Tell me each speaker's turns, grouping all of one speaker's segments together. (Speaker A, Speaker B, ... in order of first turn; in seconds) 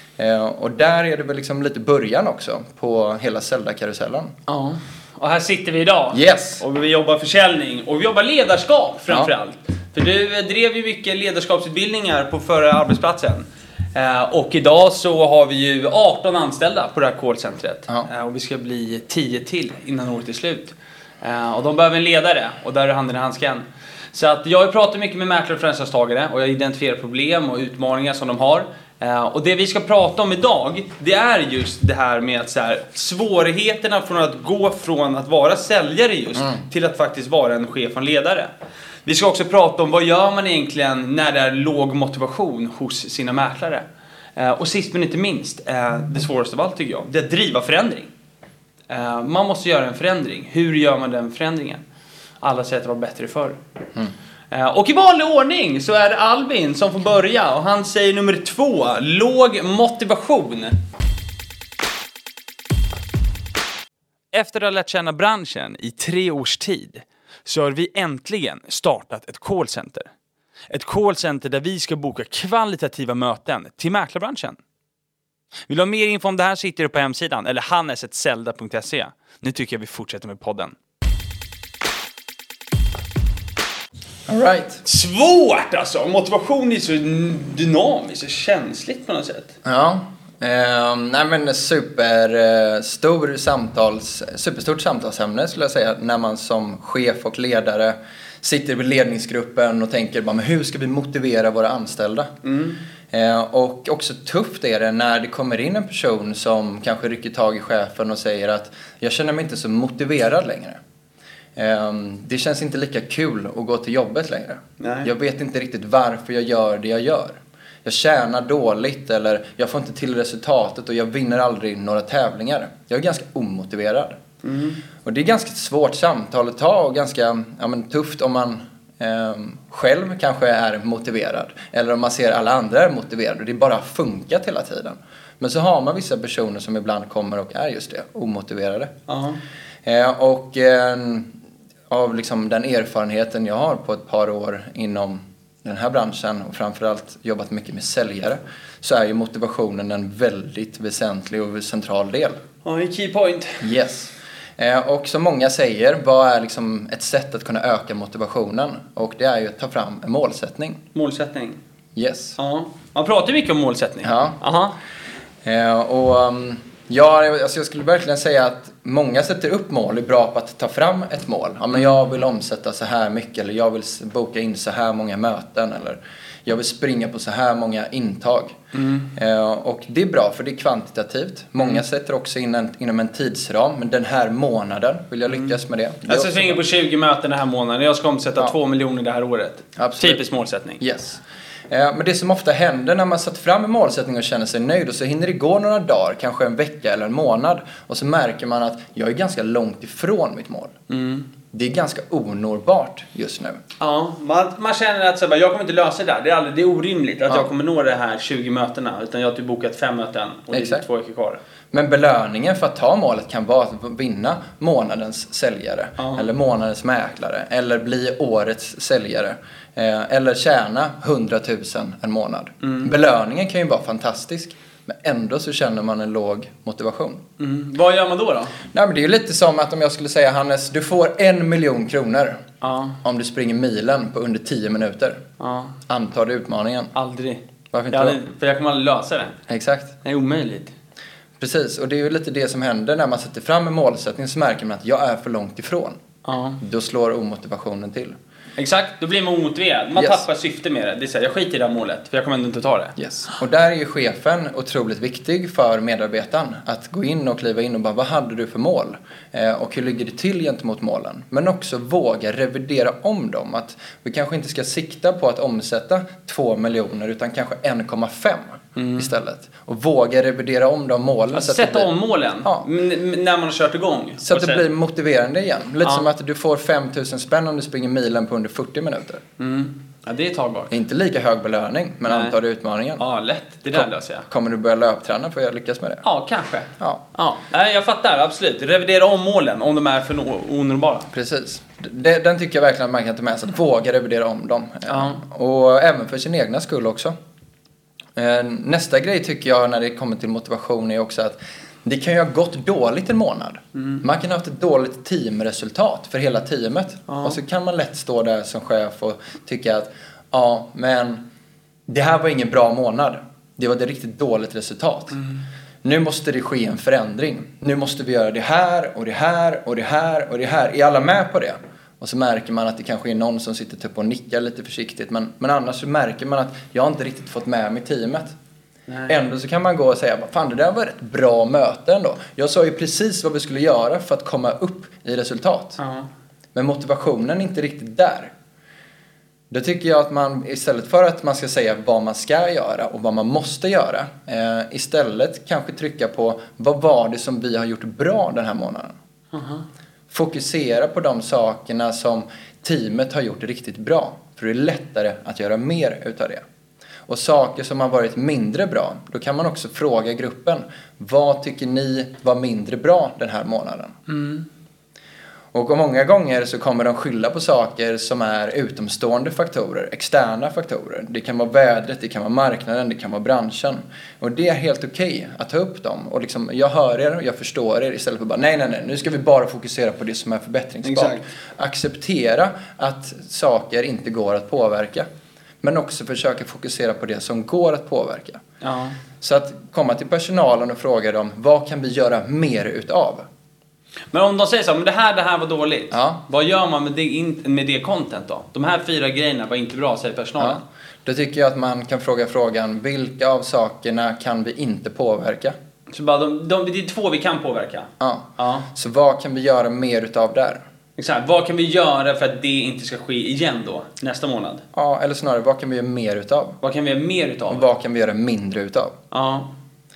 Speaker A: 0.2-4.3, 6.1-6.6, 84.3-84.8, 89.6-102.3, 103.1-110.8, 111.6-124.2, 125.0-138.9, 139.8-141.3, 141.9-152.4, 153.6-160.8, 161.9-162.4, 164.0-164.4, 165.4-178.6, 179.1-186.6, 189.8-190.2, 190.8-200.8, 201.5-203.6, 210.5-210.8, 211.7-227.2, 228.7-232.4, 233.0-235.2, 235.9-236.9, 237.7-238.2, 239.5-239.9, 241.4-246.0, 246.6-248.2, 250.0-250.2, 253.0-271.9, 274.2-279.2, 280.7-283.0, 283.7-286.0, 291.1-297.1, 298.2-311.2, 311.9-315.2, 315.8-328.3, 329.1-335.8, 336.6-338.3, 339.5-348.9, 350.1-356.4, 357.1-364.0, 365.5-385.1, 385.6-388.4, 389.2-393.3, 395.9-396.2, 400.4-405.6, 408.0-410.6, 414.7-416.6, 417.5-419.0
Speaker B: 4.5-38.5, 39.0-43.9, 44.4-48.1, 48.9-51.8, 52.4-53.6, 54.5-60.7, 64.3-70.1, 70.7-74.6, 75.7-80.8, 84.8-89.6, 102.4-102.8, 114.8-115.1, 124.4-124.8, 139.1-139.4, 152.6-153.7, 160.9-161.6, 162.4-164.8, 178.7-179.1, 185.3-185.6, 186.1-190.8, 200.9-201.3, 203.8-211.4, 216.0-216.3, 222.6-222.9, 227.4-228.6, 232.6-233.0, 235.4-235.8, 236.9-239.4, 240.0-240.7, 246.2-246.6, 248.6-252.9, 268.8-269.1, 271.3-274.6, 279.4-280.7, 282.1-282.4, 283.0-284.3, 286.0-291.1, 294.9-295.2, 303.8-304.0, 307.1-307.4, 315.1-315.4, 328.9-329.1, 335.8-336.1, 349.3-349.6, 364.1-364.5, 380.8-381.2, 388.6-389.0, 394.1-400.6, 405.9-408.7, 411.0-414.6, 416.6-417.7, 419.1-419.5